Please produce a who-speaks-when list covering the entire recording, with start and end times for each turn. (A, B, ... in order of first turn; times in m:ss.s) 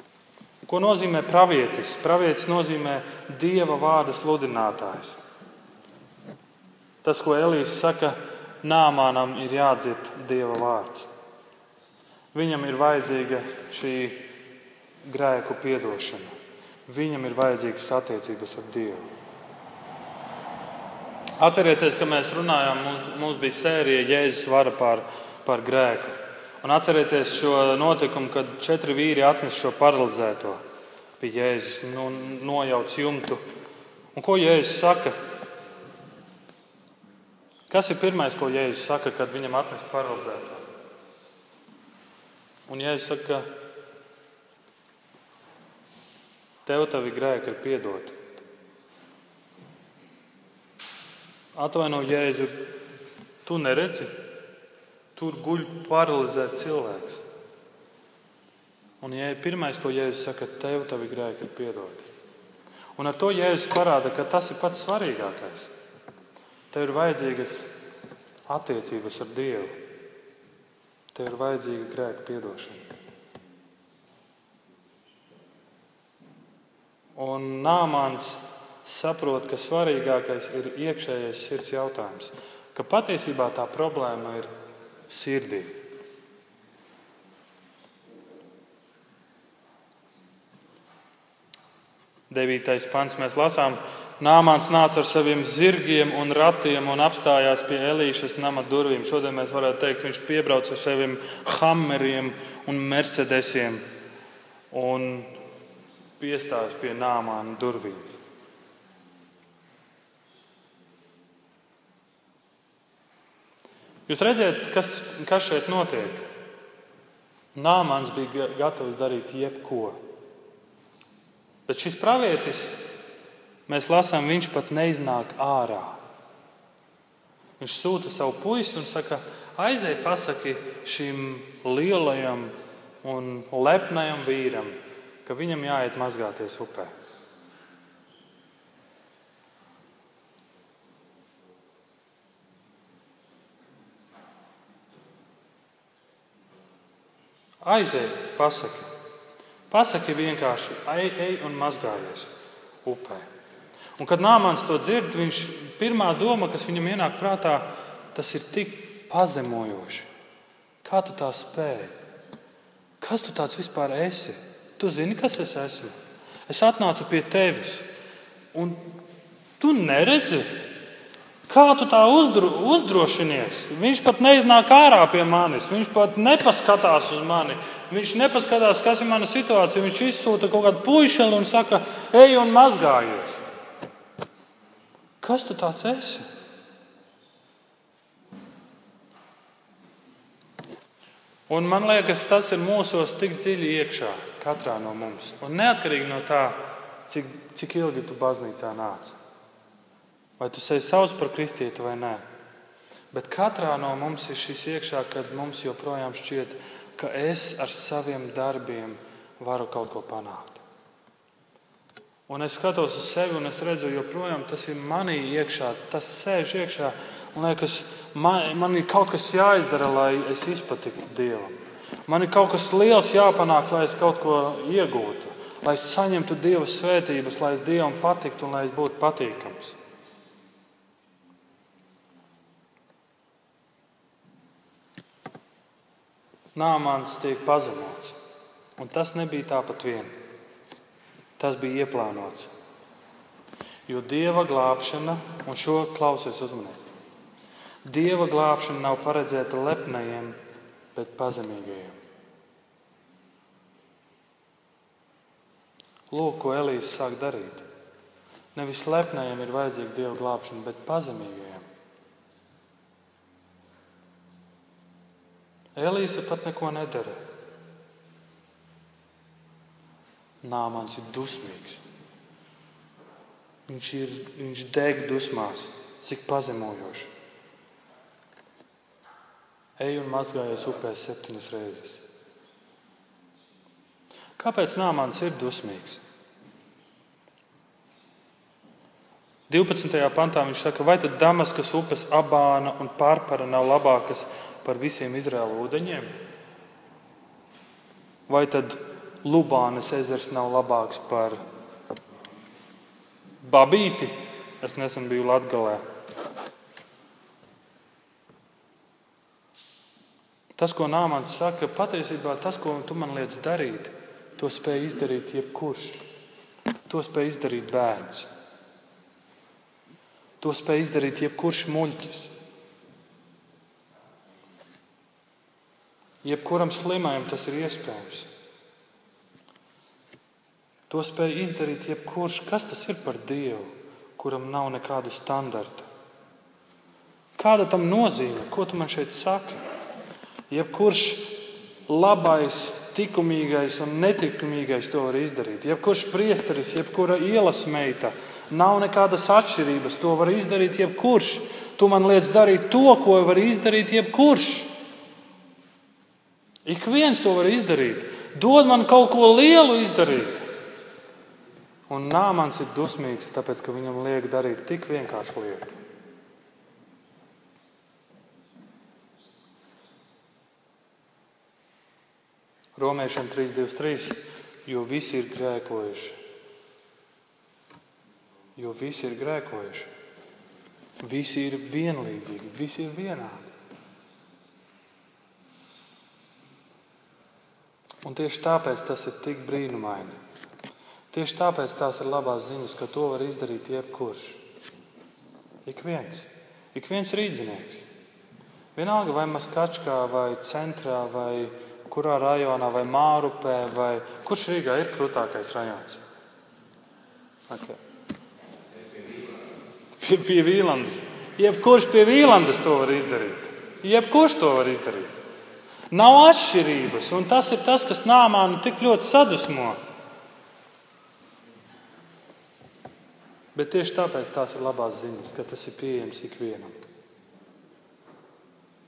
0:00.7-0:05.2 A
0:07.0-0:11.1 A
0:12.3-0:14.2 A
0:15.0-0:16.3 A
0:16.9-0:19.1 A
0:21.4-0:30.6 A
0:31.2-0:33.4 A
0:34.1-0:35.2 A
0:37.7-0:40.7 A
0:42.7-0:43.5 A
0:46.6-0:48.2 A
0:51.6-0:52.8 A
0:53.4-0:54.1 A
0:55.2-0:57.2 A
0:59.0-1:02.1 A
1:03.0-1:05.7 A
1:06.7-1:07.8 A
1:08.5-1:09.8 A
1:11.1-1:12.8 A
1:17.2-1:24.5 A
1:25.1-1:25.8 A
1:32.3-1:43.8 A
1:44.7-1:45.3 A
1:46.2-1:48.1 A
1:54.1-1:56.3 A
1:57.6-2:00.0 A
2:01.7-2:02.8 A
2:03.7-2:06.0 A
2:07.6-2:16.9 A
2:27.6-2:28.9 A
2:29.7-2:32.3 A
2:32.8-2:33.3 A
2:34.0-2:40.1 A
2:40.8-2:42.0 A
2:43.0-2:46.0 A
2:46.5-2:47.9 A
2:48.5-2:49.0 A
2:49.6-2:50.5 A
2:51.5-3:03.4 A
3:05.2-3:06.3 A
3:11.5-3:19.2 A
3:20.4-3:22.2 A
3:23.1-3:30.6 A
3:32.3-3:49.8 A
3:56.6-3:58.2 A
3:58.8-4:00.2 A
4:01.4-4:02.5 A
4:03.9-4:06.8 A
4:07.8-4:10.4 A
4:11.0-4:12.0 A
4:16.1-4:17.7 A
4:18.6-4:21.7 A
4:25.8-4:27.2 A
4:30.4-4:31.8 A
4:33.7-4:37.1 A
4:39.8-4:42.0 A
4:44.4-4:46.0 A
4:49.5-4:56.1 A
4:58.3-5:01.4 A
5:03.4-5:05.8 A
5:10.6-5:16.0 A
5:16.9-5:18.3 A
5:20.4-5:22.3 A
5:26.2-5:28.3 A
5:30.9-5:35.9 A
5:37.4-5:39.6 A
5:40.5-5:54.7 A
5:56.6-6:00.5 A
6:01.9-6:05.7 A
6:12.8-6:16.2 A
6:18.6-6:19.9 A
6:21.0-6:23.5 A
6:28.0-6:30.2 A
6:31.1-6:34.4 A
6:35.7-6:37.9 A
6:38.8-6:46.0 A
6:47.5-6:47.8 A
6:50.0-6:55.2 A
6:55.9-6:59.8 A
7:03.6-7:06.8 A